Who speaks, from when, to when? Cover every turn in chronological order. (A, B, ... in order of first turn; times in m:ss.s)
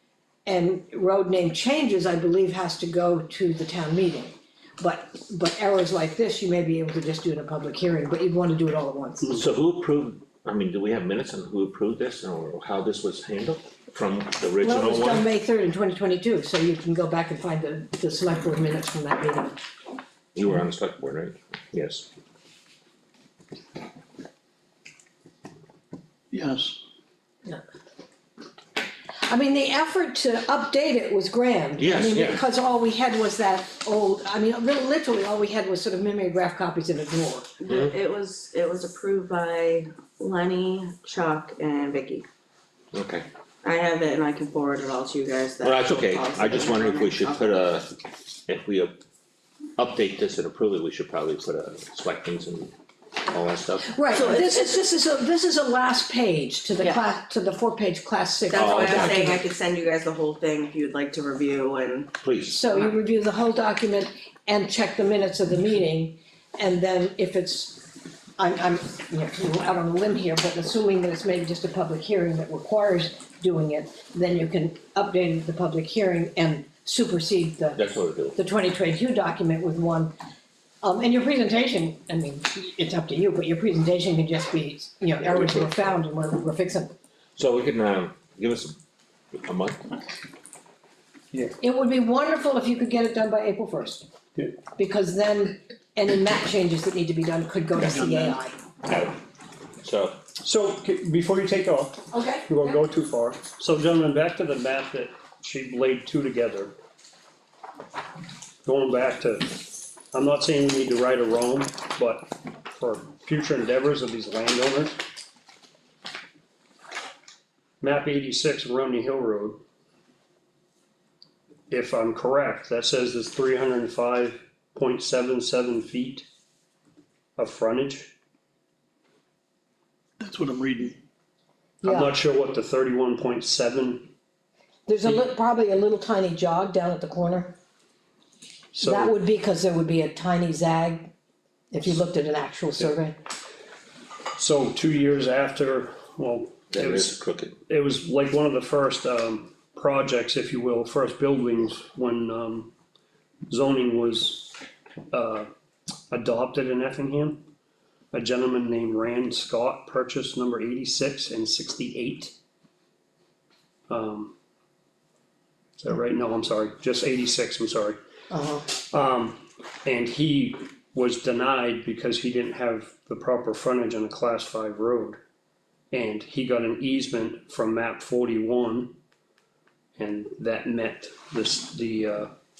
0:00.4-0:09.3 A
0:09.2-0:15.2 B
0:14.6-0:19.6 A
0:20.3-0:22.1 B
0:26.3-0:26.8 C
0:29.3-0:37.5 A
0:31.8-0:32.4 B
0:37.6-0:42.2 D
0:37.7-0:37.9 B
0:42.9-0:43.3 B
0:43.6-0:47.6 D
0:45.6-0:47.9 B
0:48.5-0:48.9 B
0:49.8-0:52.7 B
0:53.3-0:54.0 B
0:53.9-0:59.4 A
0:54.1-0:54.8 D
0:58.5-1:02.1 D
0:58.5-0:59.3 B
1:02.2-1:02.6 B
1:02.5-1:17.8 A
1:17.7-1:18.4 B
1:18.3-1:20.1 A
1:20.8-1:26.9 A
1:25.2-1:25.9 B
1:27.4-1:28.8 B
1:29.3-1:29.8 B
1:31.6-1:34.0 A
1:34.8-1:38.6 A
1:37.8-1:38.4 C
1:38.8-1:39.2 B
1:39.8-1:40.2 B
1:40.4-1:46.7 E
1:42.1-1:42.8 A
1:48.6-1:49.6 E
1:50.1-1:55.0 E
1:57.8-1:59.6 E
2:01.7-2:06.2 E
2:07.4-2:08.1 E
2:10.2-2:11.0 C
2:11.8-2:12.1 A
2:11.8-2:14.1 E
2:14.9-2:17.5 A
2:18.7-2:19.1 E
2:18.8-2:21.1 A
2:21.7-2:23.2 A
2:24.4-2:32.7 E
2:26.7-2:27.6 B
2:33.5-2:34.5 E
2:35.1-2:35.5 E
2:36.1-2:37.4 E
2:38.1-2:42.3 E
2:43.9-2:44.3 E
2:45.8-2:48.0 E
2:48.3-2:48.7 A
2:48.8-2:55.2 E
2:55.9-2:58.9 E
3:00.0-3:02.3 E